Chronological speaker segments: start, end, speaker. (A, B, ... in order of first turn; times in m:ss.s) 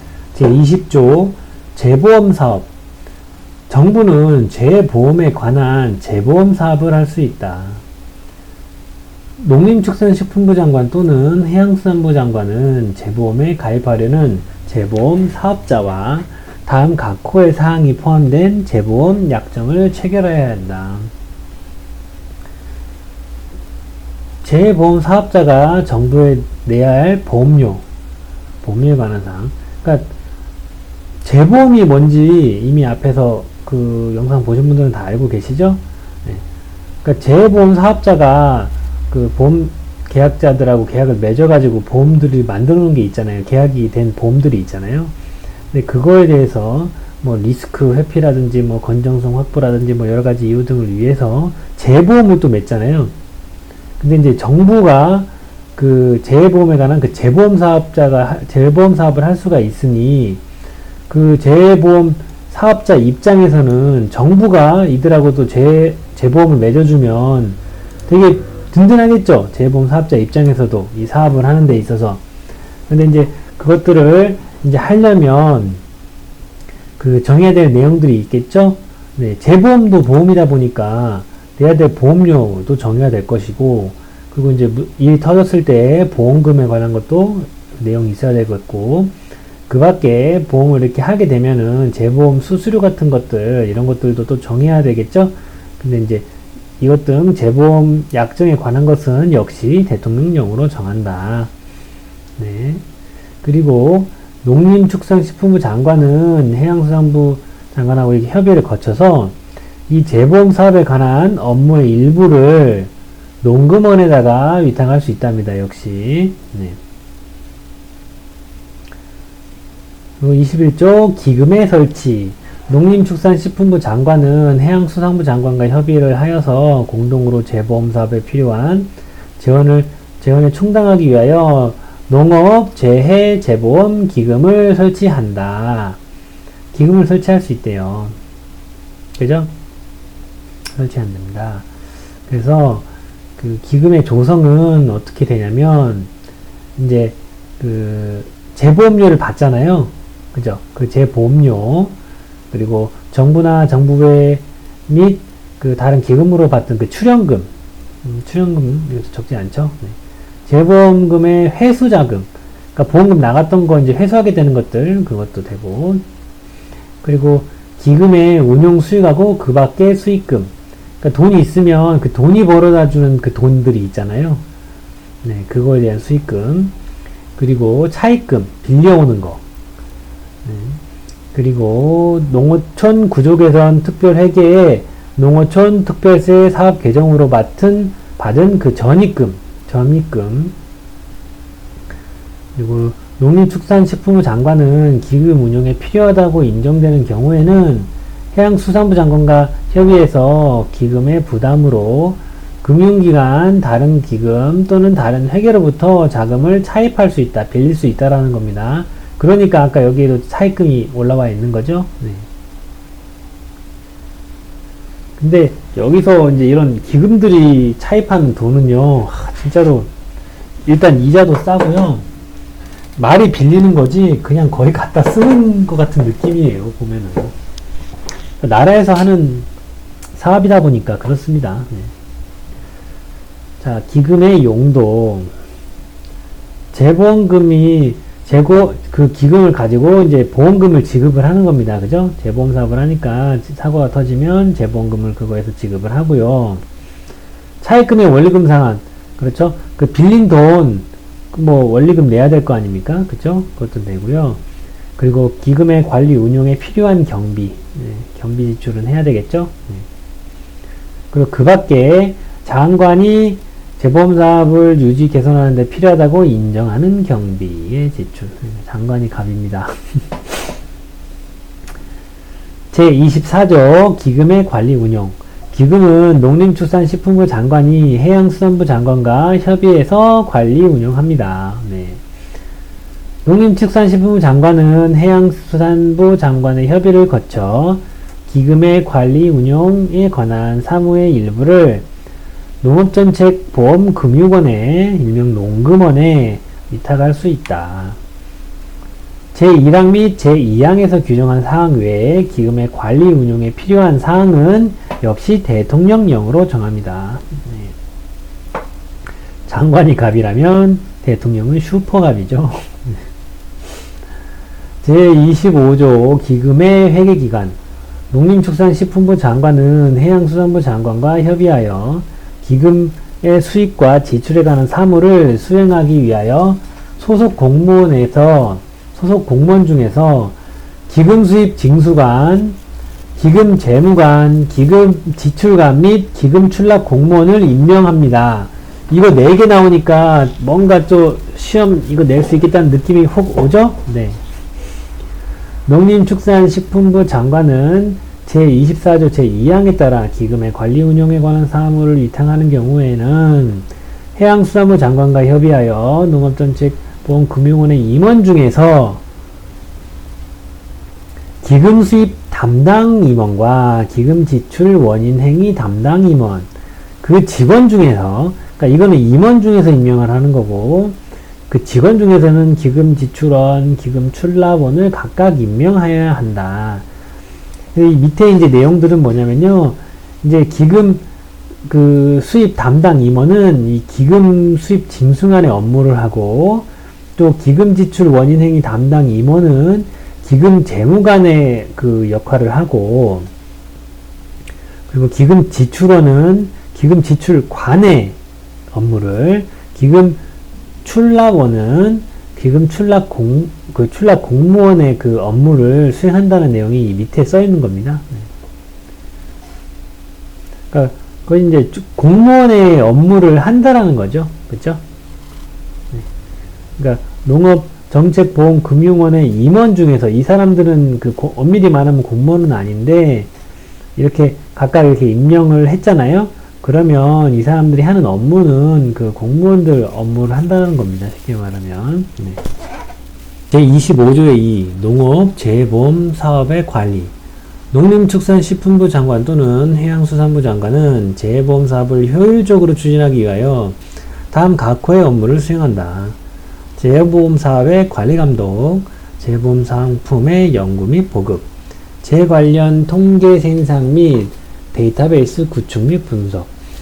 0:00.3-0:02.7 A
0:03.7-0:07.8 A
0:09.4-0:21.1 A
0:24.4-0:27.8 A
0:28.6-0:30.1 A
0:31.2-0:36.4 A
0:37.0-0:45.1 A
0:45.7-0:53.1 A
0:54.0-1:00.4 A
1:01.1-1:12.2 A
1:12.9-1:15.8 A
1:17.0-1:29.1 A
1:29.7-1:41.5 A
1:42.4-1:42.8 A
1:43.4-1:49.4 A
1:49.9-1:52.9 A
1:53.4-1:56.8 A
2:00.2-2:16.0 A
2:16.7-2:18.2 A
2:19.2-2:19.5 A
2:20.7-2:21.7 A
2:22.3-2:26.1 A
2:26.8-2:32.0 A
2:32.5-2:37.5 A
2:38.0-2:46.0 A
2:47.0-2:54.4 A
2:55.2-2:56.7 A
2:57.4-2:59.4 A
3:00.4-3:00.8 A
3:01.3-3:10.6 A
3:12.6-3:32.3 A
3:35.2-3:39.9 A
3:40.6-3:42.0 A
3:43.0-3:47.3 A
3:48.4-3:49.5 A
3:50.1-3:51.9 A
3:53.6-3:55.3 A
3:56.7-4:06.6 A
4:07.6-4:14.4 A
4:15.0-4:19.9 A
4:21.1-4:30.2 A
4:32.7-4:42.0 A
4:43.2-4:51.9 A
4:52.6-4:58.0 A
4:59.3-5:07.7 A
5:09.5-5:13.0 A
5:14.8-5:17.6 A
5:18.1-5:30.4 A
5:30.9-5:32.6 A
5:33.2-5:44.2 A
5:45.7-5:59.0 A
6:01.4-6:06.5 A
6:07.0-6:11.0 A
6:11.5-6:16.9 A
6:17.8-6:21.0 A
6:21.7-6:33.3 A
6:34.9-6:38.2 A
6:38.7-6:40.2 A
6:40.8-6:48.3 A
6:50.7-6:54.8 A
6:56.8-7:03.3 A
7:04.0-7:12.4 A
7:13.5-7:17.1 A
7:17.7-7:23.8 A
7:24.3-7:26.2 A
7:26.8-7:31.5 A
7:32.0-7:36.5 A